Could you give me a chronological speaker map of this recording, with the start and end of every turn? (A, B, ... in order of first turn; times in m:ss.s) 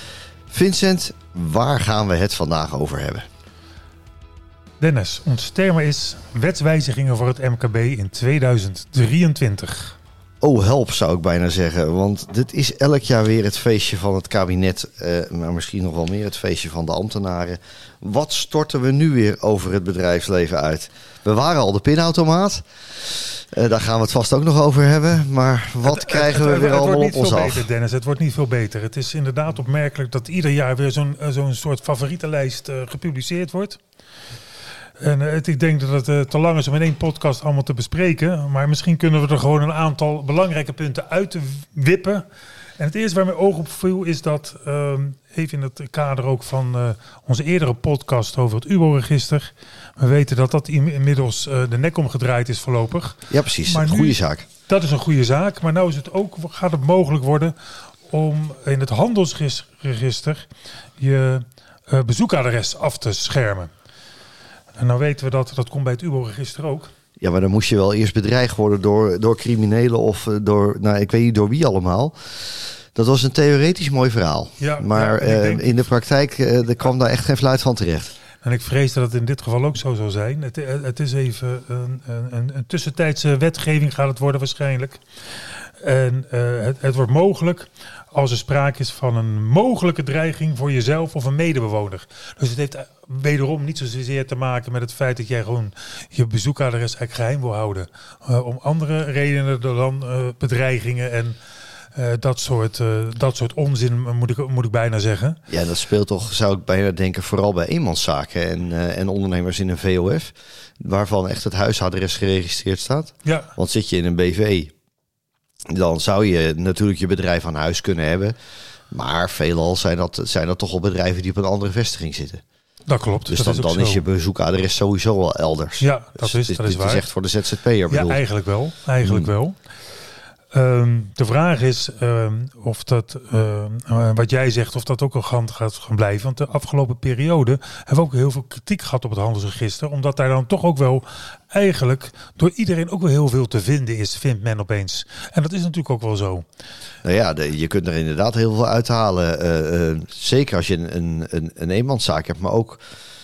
0:00.5-0:03.2 A
0:04.8-0:10.0 B
0:10.4-0:27.7 A
0:25.8-0:33.8 B
0:35.0-0:42.2 B
0:42.8-0:57.5 B
0:53.3-0:54.4 A
0:58.1-1:03.7 B
1:04.8-1:06.9 B
1:07.2-1:12.1 A
1:12.9-1:18.1 A
1:14.6-1:15.9 B
1:18.4-1:25.0 B
1:25.7-1:41.4 B
1:41.9-1:45.4 B
1:45.5-1:54.7 A
1:53.2-1:53.5 B
1:55.7-1:58.4 A
1:58.9-2:02.4 A
2:02.9-2:04.0 B
2:03.3-2:08.2 A
2:05.8-2:07.1 B
2:07.9-2:09.6 B
2:09.0-2:09.3 A
2:10.5-2:26.4 B
2:27.0-2:32.8 A